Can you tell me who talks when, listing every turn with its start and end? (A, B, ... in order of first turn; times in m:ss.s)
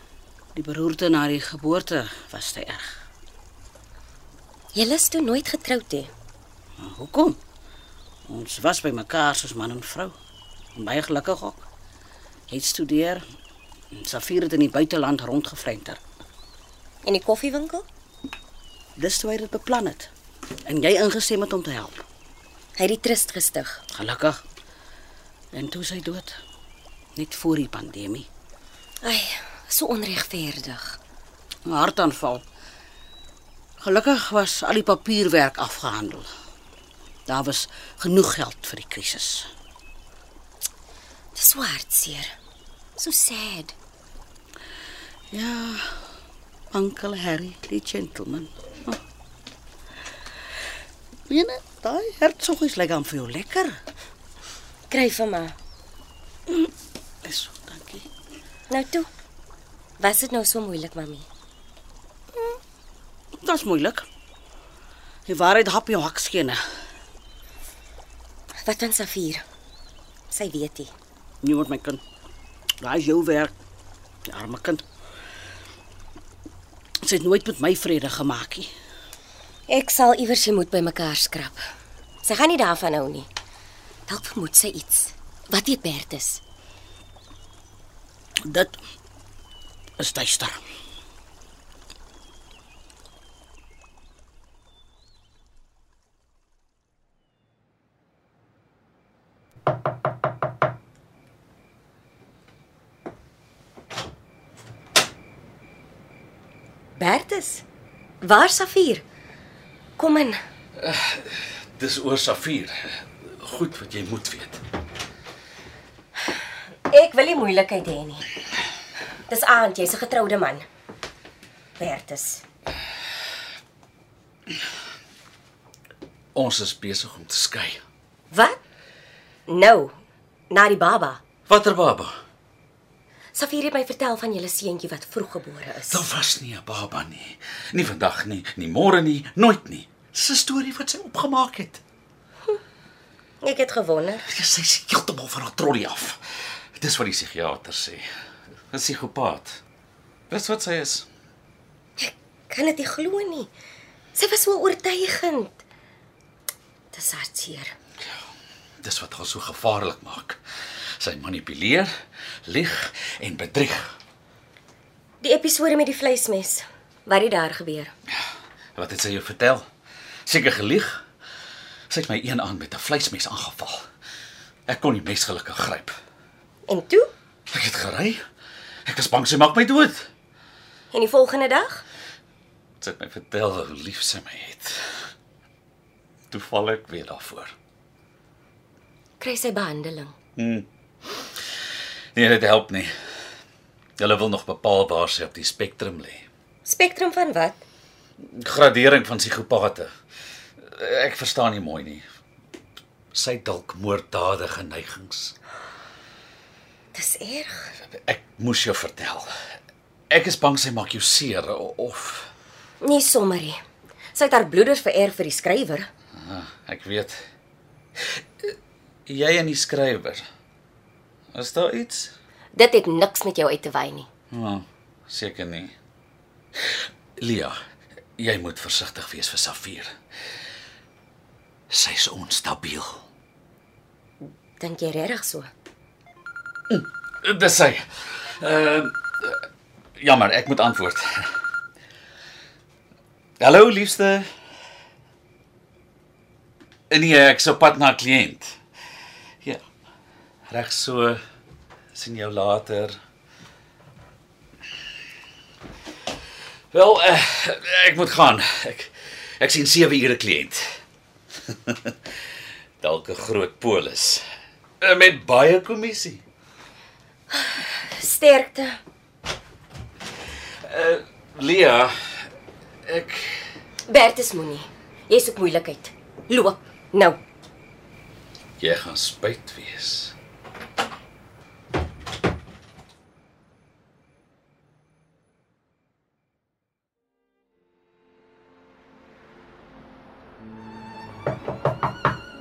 0:00.6-0:03.0 A
0:04.7-0:06.1 B
0:06.8-0:07.4 A
0:08.3-0:10.2 A
0:10.8-0:11.7 A
0:12.5-0:13.2 A
0:13.9-0:16.0 A
0:17.0-0:17.9 B
0:19.0-0:20.1 A
0:20.6-0:22.0 A
0:22.8-0:23.8 B
0:23.9-0:24.4 A
0:25.5-0:26.4 A
0:27.2-0:28.3 A
0:29.0-0:31.0 B
0:31.7-0:32.4 A
0:33.8-0:36.3 A
0:37.3-0:39.5 A
0:41.4-0:42.4 B
0:43.0-0:43.7 B
0:45.3-0:46.0 A
0:46.7-0:49.0 A
0:51.3-0:53.8 A
0:54.9-0:55.6 B
0:57.2-0:58.1 A
0:58.7-0:59.1 B
1:00.0-1:01.3 B
1:03.4-1:04.1 A
1:05.3-1:06.6 A
1:08.6-1:09.4 B
1:10.3-1:10.9 B
1:11.4-1:12.0 A
1:12.8-1:13.5 A
1:14.3-1:14.8 A
1:17.0-1:18.7 A
1:19.7-1:21.6 B
1:22.2-1:23.3 B
1:24.1-1:26.4 B
1:28.4-1:28.8 A
1:30.0-1:30.6 A
1:47.0-1:47.6 B
1:48.2-1:49.0 B
1:50.0-1:50.4 B
1:50.8-1:54.6 C
1:56.9-1:58.2 B
1:59.3-2:00.6 B
2:01.8-2:02.4 B
2:06.4-2:07.8 C
2:08.3-2:08.6 B
2:09.5-2:10.0 B
2:10.5-2:11.2 B
2:11.5-2:12.2 C
2:13.3-2:16.0 B
2:15.9-2:21.8 C
2:23.4-2:24.2 B
2:24.3-2:26.2 C
2:26.8-2:28.1 C
2:28.7-2:29.6 C
2:30.3-2:31.1 C
2:32.0-2:33.5 B
2:34.2-2:35.6 B
2:36.9-2:37.8 B
2:38.8-2:40.4 C
2:41.0-2:41.9 C
2:42.5-2:43.9 C
2:45.2-2:47.9 B
2:48.8-2:49.6 C
2:50.3-2:51.0 C
2:51.9-2:53.8 C
2:54.7-2:56.0 C
2:56.7-2:57.1 B
2:57.5-2:58.2 C
2:58.9-3:00.1 C
3:00.9-3:01.8 B
3:02.8-3:04.8 C
3:06.3-3:07.5 C
3:09.2-3:10.2 B
3:10.4-3:10.7 C
3:12.2-3:12.9 C
3:14.0-3:16.2 C
3:16.6-3:17.6 B
3:18.2-3:19.9 C
3:20.6-3:22.0 C
3:23.1-3:25.3 C
3:26.9-3:27.7 B
3:27.9-3:29.3 C
3:30.1-3:32.3 C
3:32.8-3:33.6 B
3:34.1-3:35.9 B
3:36.2-3:37.2 C
3:39.1-3:40.2 C
3:41.3-3:42.1 C
3:42.5-3:44.1 B
3:44.3-3:45.7 C
3:46.7-3:47.6 C
3:48.2-3:49.9 C
3:51.7-3:53.0 C
3:54.6-3:55.5 B
3:56.7-3:59.4 C
4:00.0-4:01.3 C
4:03.4-4:04.3 C
4:06.9-4:08.6 C
4:10.5-4:11.2 C
4:11.9-4:13.0 C
4:16.7-4:20.6 C
4:21.5-4:21.9 C
4:22.8-4:24.2 C
4:24.8-4:26.2 C
4:27.3-4:28.8 B
4:30.7-4:32.0 C
4:32.9-4:33.4 C
4:33.9-4:37.2 B
4:38.6-4:40.2 C